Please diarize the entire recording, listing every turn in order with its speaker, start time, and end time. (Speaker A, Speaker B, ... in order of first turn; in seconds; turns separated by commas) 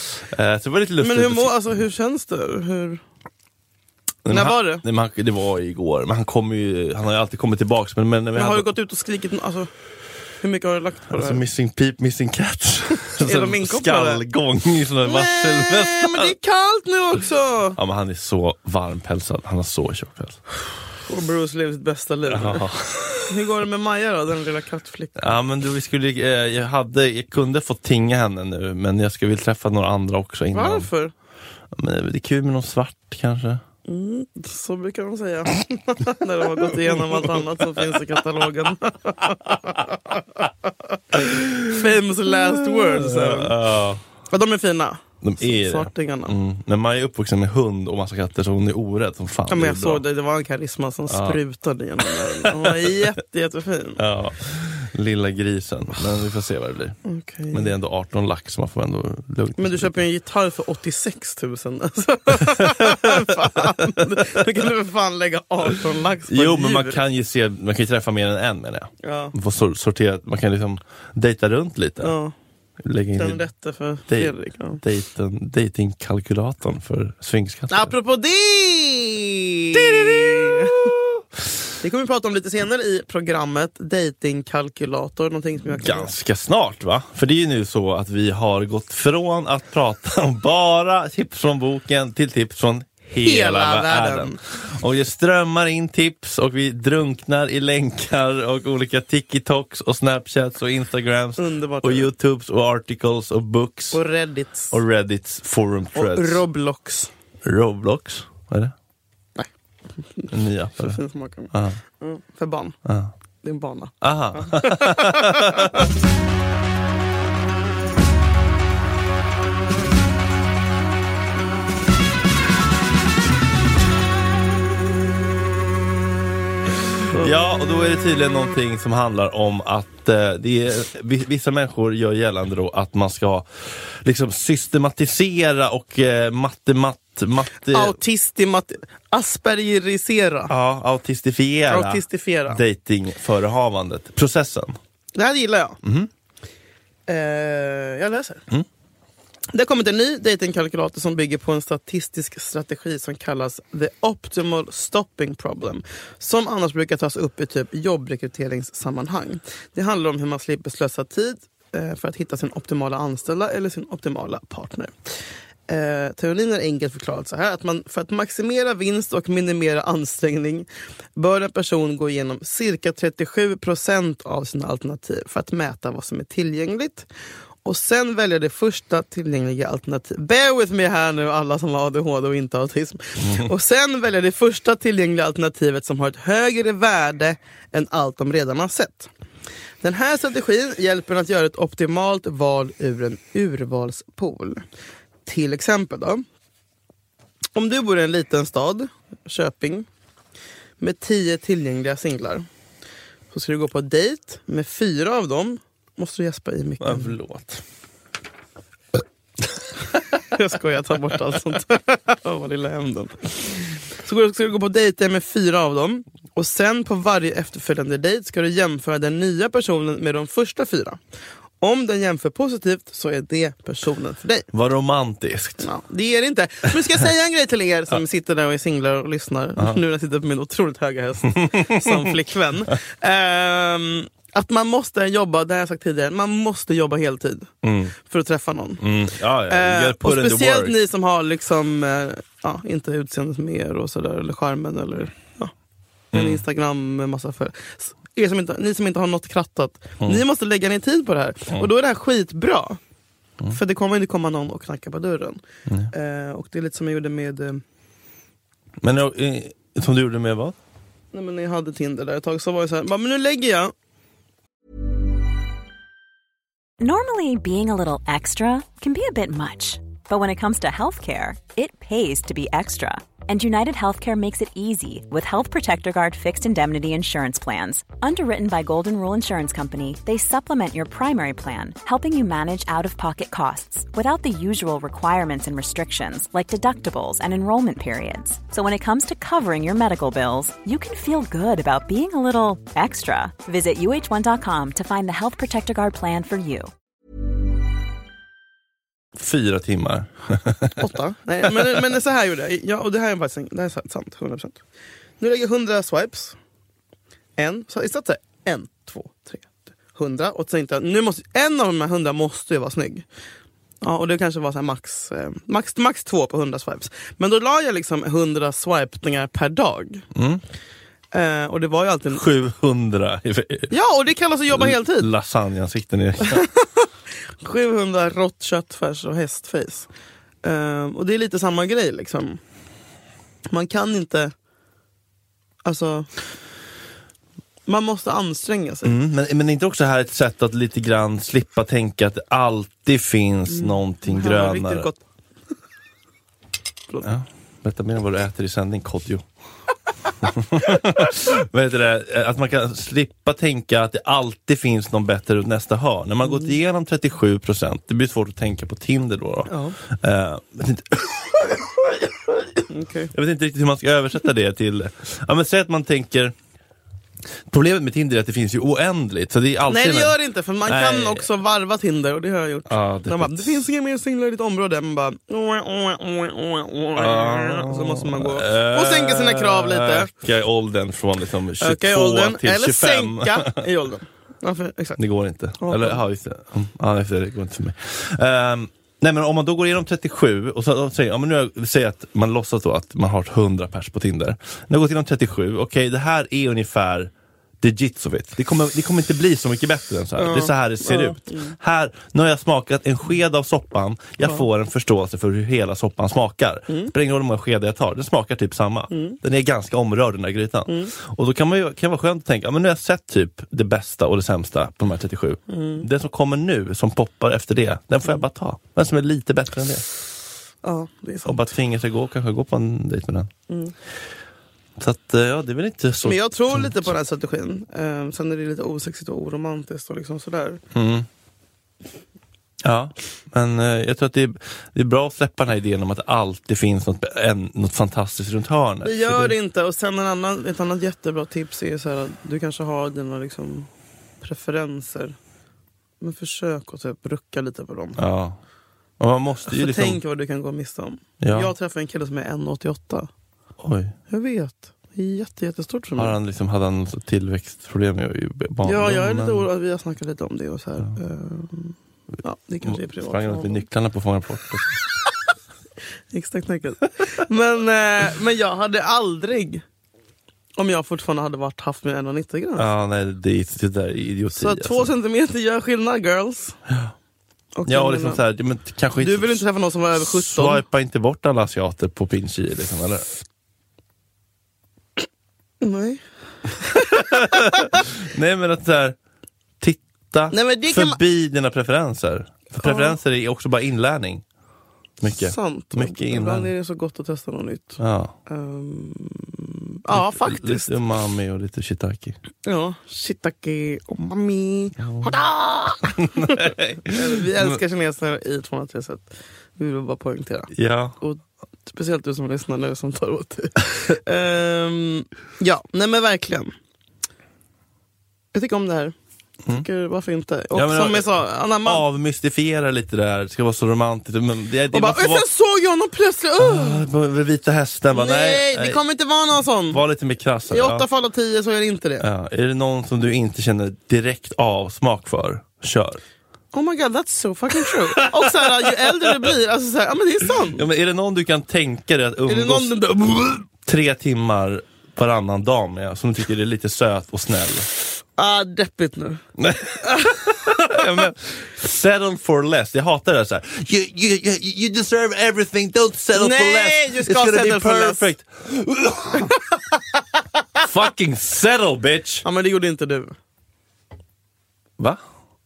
Speaker A: 0.2-1.6, Speaker B: 1.0-3.0, Speaker A: 4.2-8.7, Speaker B: 4.3-4.8, Speaker B: 8.3-9.7, Speaker B: 10.4-11.4, Speaker A: 11.1-16.3, Speaker B: 13.2-14.2, Speaker B: 15.1-17.8, Speaker A: 17.8-20.4, Speaker B: 21.0-25.4, Speaker A: 22.3-23.3, Speaker A: 25.2-30.9, Speaker B: 30.5-31.1, Speaker A: 31.7-33.6, Speaker B: 33.9-43.6, Speaker A: 36.8-38.0, Speaker A: 41.1-44.0, Speaker B: 44.3-46.4, Speaker A: 45.2-50.0, Speaker B: 49.5-54.0, Speaker A: 51.1-51.4, Speaker A: 52.3-53.1, Speaker A: 54.0-59.9, Speaker B: 57.0-57.7, Speaker B: 59.6-67.0, Speaker A: 62.6-64.5, Speaker A: 66.3-72.1, Speaker B: 69.0-69.3, Speaker B: 72.0-72.3, Speaker A: 72.8-73.4, Speaker B: 73.2-74.8, Speaker A: 74.1-77.9, Speaker B: 77.7-81.0, Speaker A: 79.7-81.0, Speaker B: 81.8-86.1, Speaker A: 85.7-104.0, Speaker B: 93.2-94.4, Speaker B: 101.4-102.1, Speaker B: 103.9-104.8, Speaker A: 104.7-106.4, Speaker B: 106.0-107.1, Speaker A: 107.4-108.7, Speaker B: 110.2-112.8, Speaker A: 110.3-111.0, Speaker A: 111.5-111.8, Speaker A: 112.8-113.1, Speaker B: 113.4-115.8, Speaker A: 114.0-115.8, Speaker A: 126.9-138.0, Speaker B: 137.7-140.5, Speaker A: 140.5-144.8, Speaker B: 141.7-142.6, Speaker B: 145.2-145.8, Speaker A: 145.8-146.1, Speaker B: 147.1-148.4, Speaker B: 149.5-164.9, Speaker B: 165.7-177.1, Speaker B: 177.6-189.1, Speaker B: 189.8-194.7, Speaker B: 195.2-196.2, Speaker B: 197.6-199.9, Speaker B: 200.8-202.5, Speaker B: 203.3-207.2, Speaker A: 206.8-207.6, Speaker B: 210.2-221.0, Speaker B: 221.6-224.5, Speaker A: 224.5-225.7, Speaker B: 225.6-238.8, Speaker A: 231.3-232.1, Speaker A: 237.6-237.9, Speaker A: 238.8-240.8, Speaker B: 239.4-245.5, Speaker B: 246.1-252.8, Speaker A: 246.1-246.4, Speaker B: 253.5-257.6, Speaker A: 258.8-260.6, Speaker B: 261.1-263.7, Speaker C: 266.8-296.7, Speaker A: 299.2-300.9, Speaker B: 300.8-304.6, Speaker A: 301.5-301.9, Speaker B: 305.2-306.4, Speaker B: 307.4-313.1, Speaker B: 313.8-320.1, Speaker A: 320.1-320.4, Speaker B: 321.1-322.2, Speaker A: 322.1-323.7, Speaker B: 323.7-325.1, Speaker A: 324.5-326.5, Speaker B: 326.2-326.9, Speaker B: 327.4-329.9, Speaker B: 330.4-332.4, Speaker B: 333.5-334.3, Speaker B: 335.6-336.1, Speaker B: 337.7-339.0, Speaker A: 338.9-344.9, Speaker B: 343.5-345.0, Speaker A: 347.0-349.3, Speaker A: 350.2-366.4, Speaker B: 359.5-359.8, Speaker B: 362.7-363.1, Speaker A: 367.5-371.3, Speaker B: 369.7-380.1, Speaker A: 372.7-373.6, Speaker A: 377.0-383.6, Speaker B: 381.6-385.0, Speaker A: 385.0-419.9, Speaker B: 385.6-386.0, Speaker B: 400.2-401.6, Speaker B: 406.7-406.9, Speaker B: 408.9-409.2, Speaker B: 410.7-410.9, Speaker B: 415.5-415.9, Speaker B: 420.6-421.4, Speaker A: 421.2-423.3, Speaker B: 423.5-423.7, Speaker A: 424.8-426.9, Speaker B: 426.0-430.6, Speaker A: 430.7-431.1, Speaker A: 432.6-439.4, Speaker B: 438.8-443.7, Speaker B: 444.2-445.2, Speaker B: 446.0-448.0, Speaker A: 448.0-448.4, Speaker A: 449.0-450.0, Speaker B: 449.5-453.1, Speaker A: 451.2-451.5, Speaker A: 453.6-453.9, Speaker B: 454.1-456.2, Speaker A: 456.0-459.5, Speaker B: 458.6-463.6, Speaker A: 462.6-464.8, Speaker B: 466.1-469.6, Speaker B: 470.6-472.7, Speaker A: 472.6-474.9, Speaker B: 474.3-476.6, Speaker A: 476.7-476.9, Speaker B: 477.6-478.2, Speaker A: 477.7-483.1, Speaker B: 479.0-480.6, Speaker B: 485.6-487.8, Speaker A: 486.8-489.0, Speaker A: 489.6-494.2, Speaker B: 490.3-491.0, Speaker B: 492.6-493.0, Speaker A: 495.0-496.5, Speaker B: 495.0-500.8, Speaker A: 497.8-498.1, Speaker A: 499.9-502.2, Speaker B: 502.4-516.5, Speaker A: 504.8-505.2, Speaker A: 505.9-507.6, Speaker A: 510.5-510.9, Speaker B: 518.3-519.0, Speaker B: 519.5-521.8, Speaker A: 520.5-525.2, Speaker B: 524.7-526.8, Speaker A: 526.4-528.8, Speaker B: 527.9-529.8, Speaker A: 529.7-530.9, Speaker B: 530.5-532.1, Speaker A: 532.0-536.0, Speaker B: 536.5-540.6, Speaker A: 537.6-539.4, Speaker A: 540.5-542.8, Speaker B: 542.3-543.5, Speaker A: 543.5-547.7, Speaker B: 548.2-549.2, Speaker A: 549.4-559.4, Speaker B: 549.8-550.9, Speaker B: 556.1-558.1, Speaker B: 559.3-559.8, Speaker A: 560.6-562.2, Speaker B: 562.2-563.2